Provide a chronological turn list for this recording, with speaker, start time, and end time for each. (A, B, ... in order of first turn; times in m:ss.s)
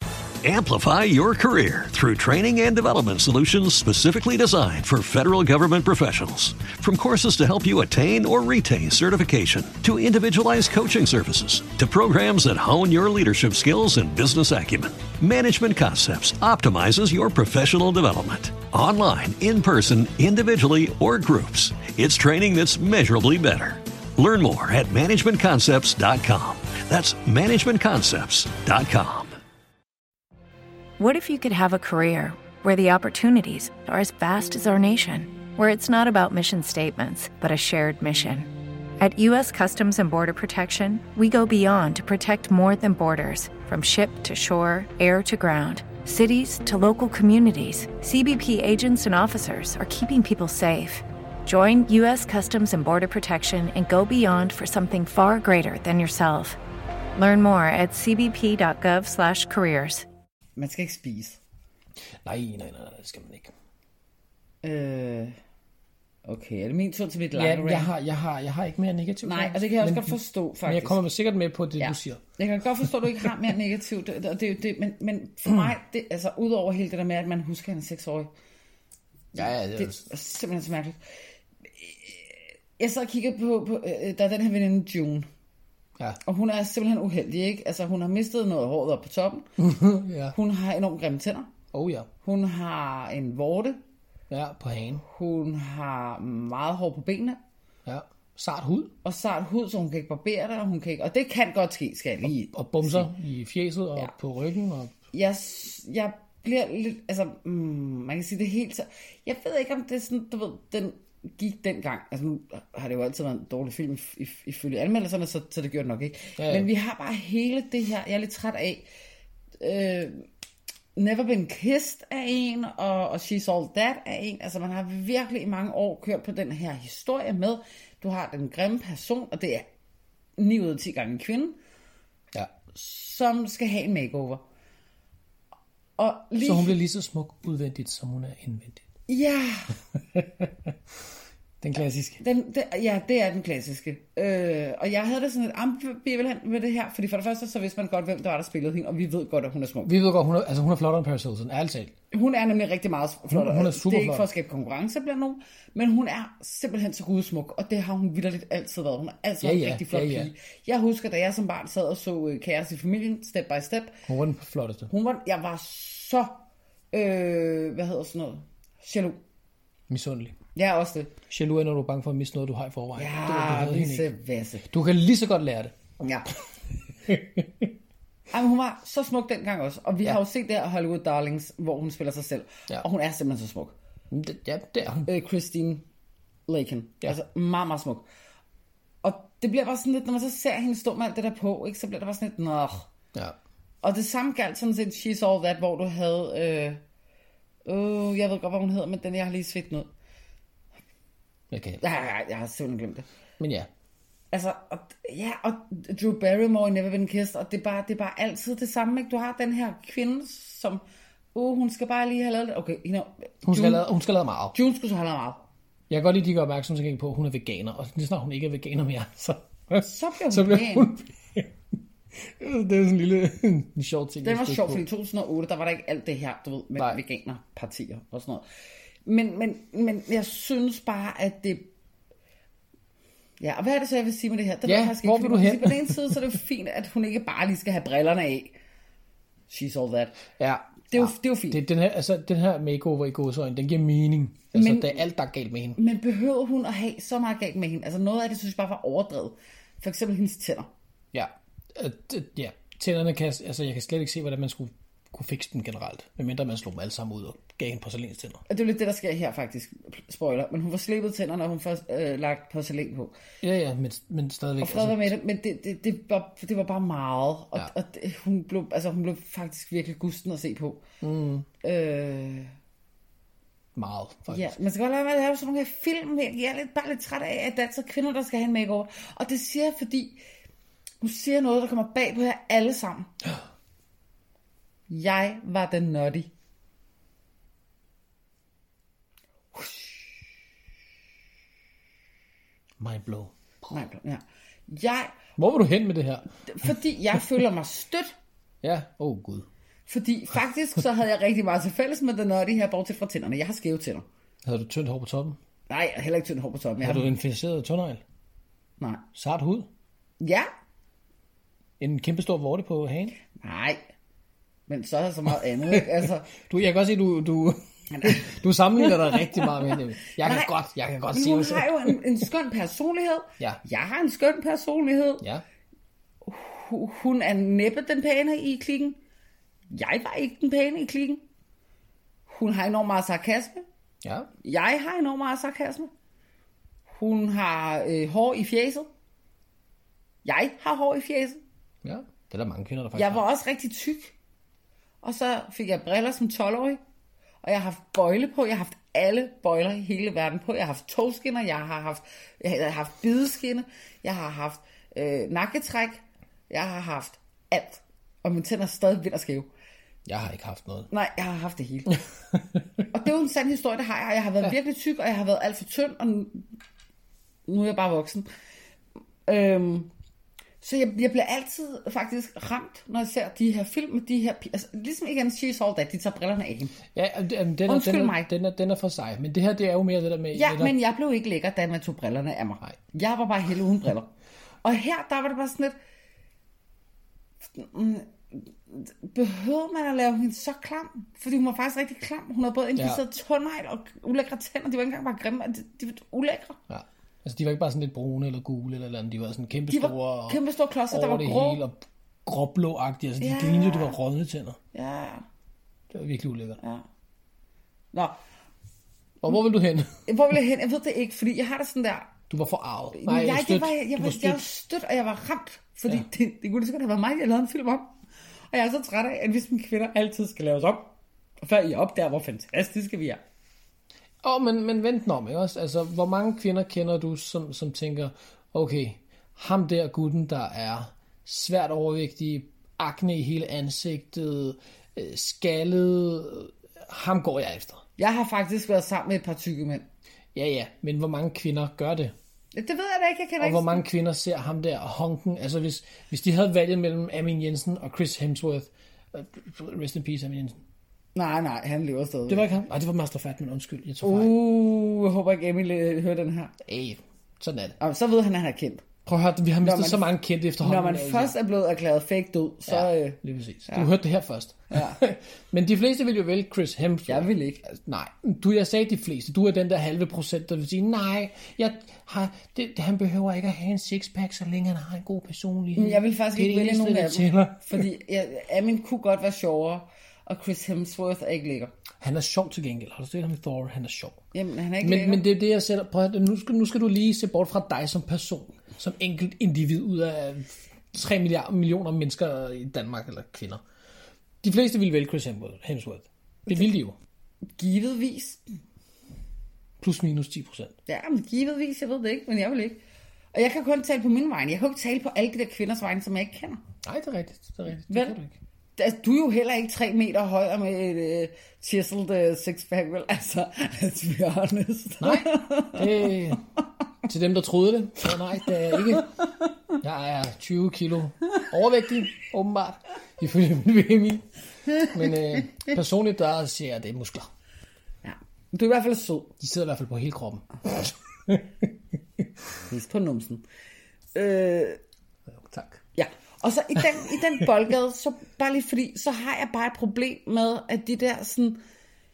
0:00.4-0:29.4 A
0:31.0-0:56.6 B
0:57.2-1:00.0 B
1:00.6-1:01.4 C
1:02.2-1:03.5 D
1:04.6-1:05.4 C
1:06.2-1:07.9 C
1:07.3-1:12.2 D
1:09.2-1:11.0 C
1:11.8-1:18.3 C
1:19.3-1:21.0 C
1:19.4-1:20.1 D
1:21.7-1:25.3 C
1:26.2-1:29.5 C
1:29.6-1:30.4 D
1:30.3-1:31.5 C
1:31.7-1:32.1 D
1:32.2-1:33.8 C
1:34.3-1:35.0 D
1:35.0-1:37.4 C
1:37.8-1:38.9 D
1:39.0-1:43.1 C
1:42.2-1:44.9 D
1:45.1-1:58.9 C
1:56.4-1:56.7 D
1:59.6-2:00.2 C
2:01.0-2:09.7 C
2:10.4-2:11.6 C
2:12.7-2:14.4 C
2:16.0-2:16.8 C
2:16.4-2:18.8 D
2:19.1-2:19.8 C
2:20.1-2:20.7 D
2:21.6-2:22.2 D
2:22.2-2:29.9 C
2:29.8-2:31.9 D
2:32.1-2:44.0 C
2:33.3-2:34.3 D
2:39.4-2:40.3 D
2:44.0-2:44.9 D
2:44.9-2:49.2 C
2:49.9-2:50.4 D
2:50.5-2:51.1 C
2:51.3-2:54.1 D
2:53.0-2:54.7 C
2:54.6-2:55.8 D
2:56.0-2:56.3 C
2:57.1-2:57.7 D
2:58.3-3:03.7 C
3:04.1-3:05.1 D
3:05.0-3:05.8 C
3:06.5-3:08.0 C
3:09.0-3:12.9 C
3:13.8-3:16.8 C
3:17.6-3:19.9 C
3:21.5-3:21.8 D
3:21.8-3:23.0 C
3:23.4-3:23.7 D
3:24.3-3:30.8 C
3:31.3-3:33.8 C
3:33.4-3:34.5 D
3:34.5-3:35.4 C
3:35.9-3:41.5 D
3:39.8-3:40.9 C
3:42.1-3:44.8 D
3:44.2-3:48.4 C
3:49.0-3:51.7 C
3:53.4-3:58.6 C
3:54.6-3:56.2 D
3:59.5-4:00.2 C
4:00.4-4:05.8 D
4:00.9-4:01.6 C
4:04.5-4:05.0 C
4:05.8-4:10.7 C
4:11.1-4:18.4 D
4:18.5-4:23.2 C
4:23.4-4:25.1 D
4:24.6-4:30.8 C
4:31.0-4:31.4 D
4:31.6-4:32.5 C
4:33.8-4:34.6 D
4:34.3-4:40.2 C
4:41.0-4:43.1 C
4:44.9-4:46.3 C
4:49.5-4:50.1 C
4:52.8-4:53.7 D
4:53.7-4:55.1 C
4:55.4-4:56.7 D
4:56.4-4:58.1 C
4:58.6-4:59.5 D
4:59.9-5:04.0 C
5:04.4-5:05.4 D
5:05.7-5:07.1 C
5:06.8-5:08.0 D
5:08.8-5:09.0 C
5:09.1-5:09.7 D
5:10.2-5:10.5 C
5:11.8-5:13.2 D
5:13.4-5:13.8 C
5:14.7-5:16.3 C
5:15.7-5:22.0 D
5:17.9-5:18.3 C
5:18.8-5:19.5 C
5:20.2-5:20.5 C
5:21.1-5:25.3 C
5:26.2-5:29.0 C
5:29.7-5:31.2 C
5:32.3-5:33.6 C
5:34.0-5:34.3 D
5:34.4-5:35.9 C
5:36.9-5:38.9 C
5:40.2-5:41.4 C
5:41.8-5:43.2 D
5:42.9-5:44.1 C
5:45.0-5:46.8 C
5:47.4-5:59.5 C
6:00.0-6:00.9 D
6:00.9-6:02.0 C
6:02.3-6:02.8 D
6:02.9-6:06.5 C
6:07.5-6:08.3 C
6:09.2-6:09.9 C
6:10.6-6:16.8 C
6:16.9-6:20.7 D
6:17.6-6:18.3 C
6:20.3-6:24.1 C
6:24.6-6:25.7 C
6:27.5-6:36.6 C
6:32.8-6:33.0 D
6:36.7-6:44.6 D
6:39.7-6:41.6 C
6:43.2-6:44.0 C
6:44.7-6:45.2 C
6:45.9-6:46.6 D
6:46.6-6:46.8 C
6:49.2-6:50.1 D
6:50.1-6:52.1 C
6:52.3-6:54.5 D
6:52.9-6:57.9 C
6:58.5-7:03.2 C
7:04.2-7:17.8 D
7:18.0-7:19.8 C
7:20.3-7:22.1 D
7:22.5-7:23.8 C
7:23.4-7:30.6 D
7:31.1-7:32.5 C
7:32.3-7:34.4 D
7:34.0-7:36.5 C
7:36.6-7:37.8 D
7:37.8-7:38.8 C
7:39.0-7:41.3 D
7:39.6-7:40.0 C
7:40.6-7:43.9 C
7:42.7-7:57.9 D
7:44.7-7:45.0 C
7:47.1-7:47.6 C
7:55.8-8:01.7 C
8:02.0-8:04.2 D
8:04.3-8:05.2 C
8:04.8-8:13.6 D
8:14.4-8:17.0 D
8:17.6-8:18.4 C
8:19.8-8:20.7 D
8:20.9-8:22.8 C
8:23.3-8:26.6 C
8:26.8-8:28.3 D
8:27.9-8:28.2 C
8:28.8-8:36.1 C
8:35.0-8:36.4 D
8:37.0-8:39.2 D
8:39.7-8:47.3 D
8:48.0-8:49.3 C
8:49.4-8:51.7 D
8:52.7-8:53.4 C
8:54.1-8:54.8 C
8:55.3-8:55.8 D
8:55.9-9:01.6 C